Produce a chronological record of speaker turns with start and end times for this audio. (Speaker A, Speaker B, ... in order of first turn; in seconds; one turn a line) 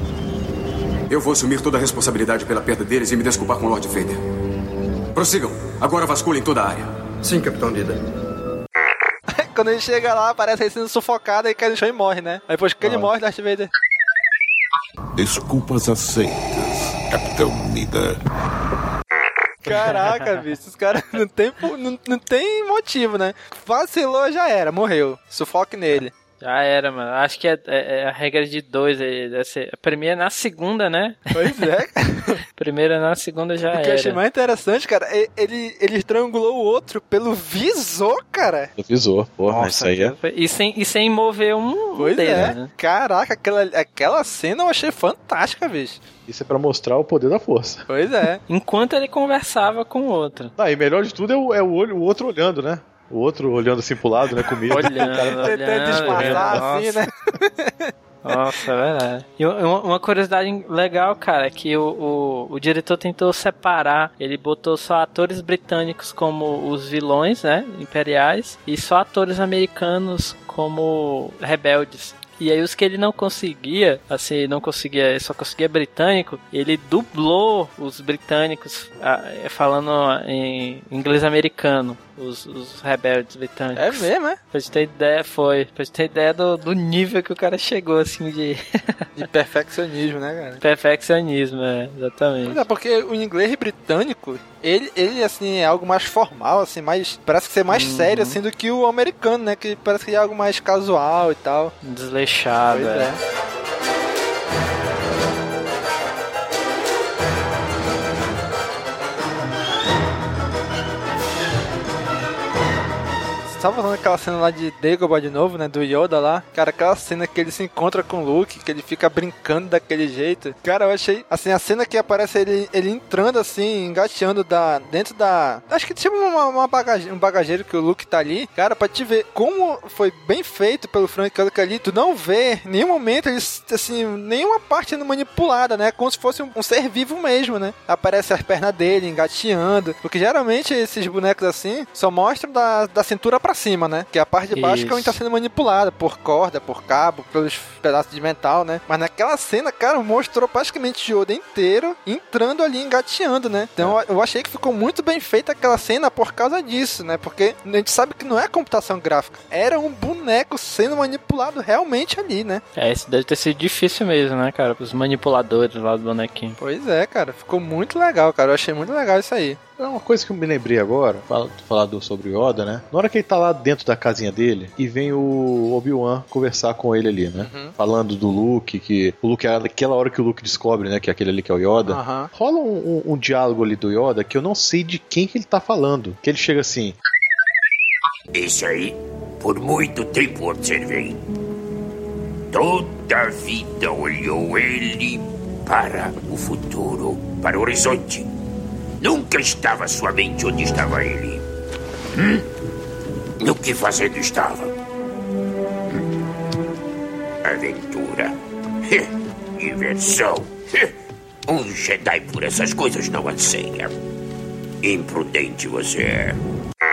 Speaker A: 1.1-4.2
Speaker A: 5.1-6.9
Speaker B: 9.3-13.7
Speaker C: 12.8-13.1
Speaker A: 15.2-16.1
Speaker B: 19.6-26.1
Speaker D: 19.7-20.3
Speaker D: 26.4-31.6
Speaker B: 31.3-32.4
Speaker D: 32.6-34.2
Speaker B: 33.7-38.7
Speaker C: 38.8-40.1
Speaker D: 39.5-42.7
Speaker B: 42.0-46.0
Speaker C: 46.3-47.9
Speaker B: 47.9-48.4
Speaker D: 48.5-50.5
Speaker C: 50.6-56.7
Speaker D: 54.7-57.0
Speaker B: 54.9-57.9
Speaker D: 58.2-89.2
Speaker B: 83.8-84.4
Speaker B: 89.2-90.6
Speaker D: 90.6-92.6
Speaker B: 92.5-101.7
Speaker D: 97.7-98.4
Speaker D: 101.8-103.1
Speaker B: 102.7-103.2
Speaker B: 113.5-162.6
Speaker D: 144.5-145.2
Speaker D: 162.8-166.6
Speaker B: 166.6-169.6
Speaker C: 169.8-187.0
Speaker B: 177.4-177.7
Speaker B: 181.9-182.3
Speaker E: 188.3-191.2
Speaker E: 192.5-198.3
Speaker E: 199.0-201.4
Speaker E: 202.2-202.4
Speaker E: 203.4-204.7
Speaker E: 207.4-208.3
Speaker E: 208.9-210.9
Speaker E: 211.5-213.9
Speaker E: 214.8-216.4